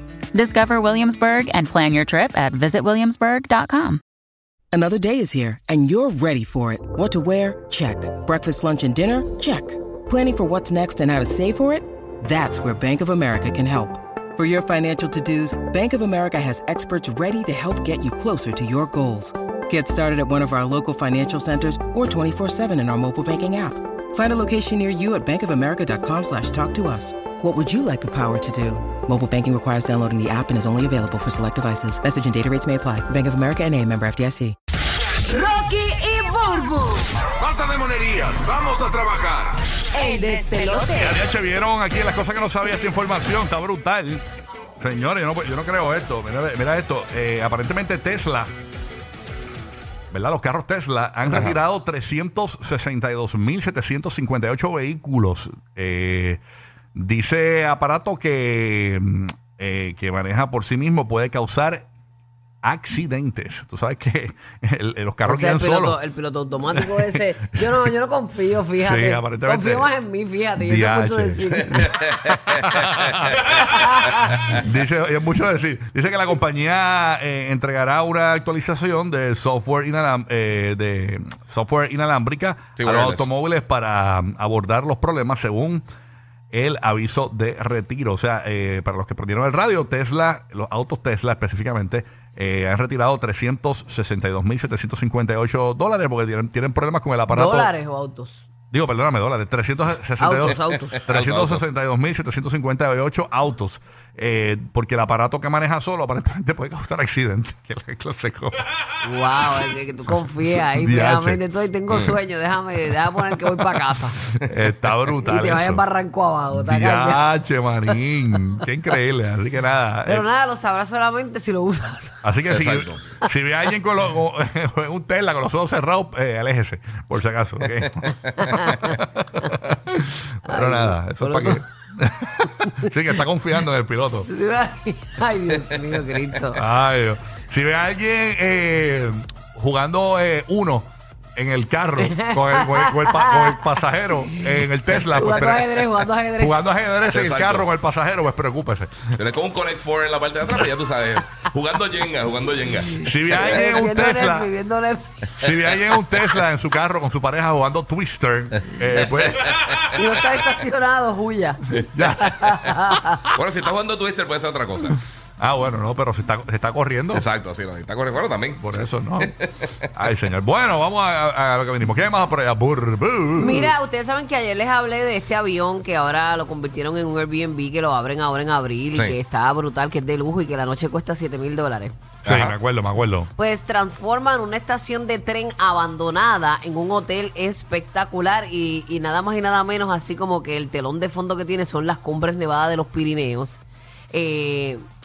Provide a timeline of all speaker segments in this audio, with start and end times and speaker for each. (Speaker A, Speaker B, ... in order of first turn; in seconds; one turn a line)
Speaker A: 0.3-4.0
Speaker B: 4.7-34.5
Speaker C: 35.3-37.1
Speaker D: 37.4-39.6
Speaker C: 40.0-41.1
Speaker E: 40.9-44.2
Speaker E: 44.8-48.5
Speaker E: 50.1-56.4
Speaker F: 51.3-51.5
Speaker E: 57.0-61.9
Speaker E: 62.6-66.0
Speaker G: 65.2-72.0
Speaker E: 66.8-67.9
Speaker E: 68.8-69.9
Speaker E: 70.6-73.4
Speaker F: 71.9-72.5
Speaker G: 73.5-74.4
Speaker E: 74.5-85.8
Speaker F: 82.8-83.3
Speaker E: 86.5-97.7
Speaker G: 97.3-98.4
Speaker E: 98.7-108.6
Speaker G: 100.2-101.1
Speaker F: 100.4-101.6
Speaker G: 109.0-114.5
Speaker E: 110.7-111.4
Speaker F: 111.9-112.2
Speaker E: 114.4-115.8
Speaker G: 115.1-117.2
Speaker E: 116.5-120.2
Speaker G: 120.0-122.3
Speaker E: 122.2-134.3
Speaker F: 122.5-123.0
Speaker F: 128.0-128.8
Speaker G: 128.5-129.5
Speaker G: 130.5-131.6
Speaker G: 132.5-132.9
Speaker G: 134.3-136.6
Speaker F: 135.5-136.0
Speaker E: 136.5-149.1
Speaker G: 142.0-143.7
Speaker G: 144.3-146.9
Speaker F: 147.1-147.7
Speaker F: 149.2-153.0
Speaker E: 153.0-154.5
Speaker G: 153.3-155.3
Speaker E: 155.4-159.7
Speaker F: 155.9-156.2
Speaker F: 159.1-159.9
Speaker G: 159.9-163.3
Speaker E: 161.9-162.6
Speaker F: 163.3-165.0
Speaker E: 165.4-167.2
Speaker F: 167.1-169.8
Speaker E: 168.6-169.3
Speaker E: 169.9-173.7
Speaker G: 173.4-181.9
Speaker E: 182.2-183.3
Speaker F: 182.2-182.6
Speaker G: 183.4-194.8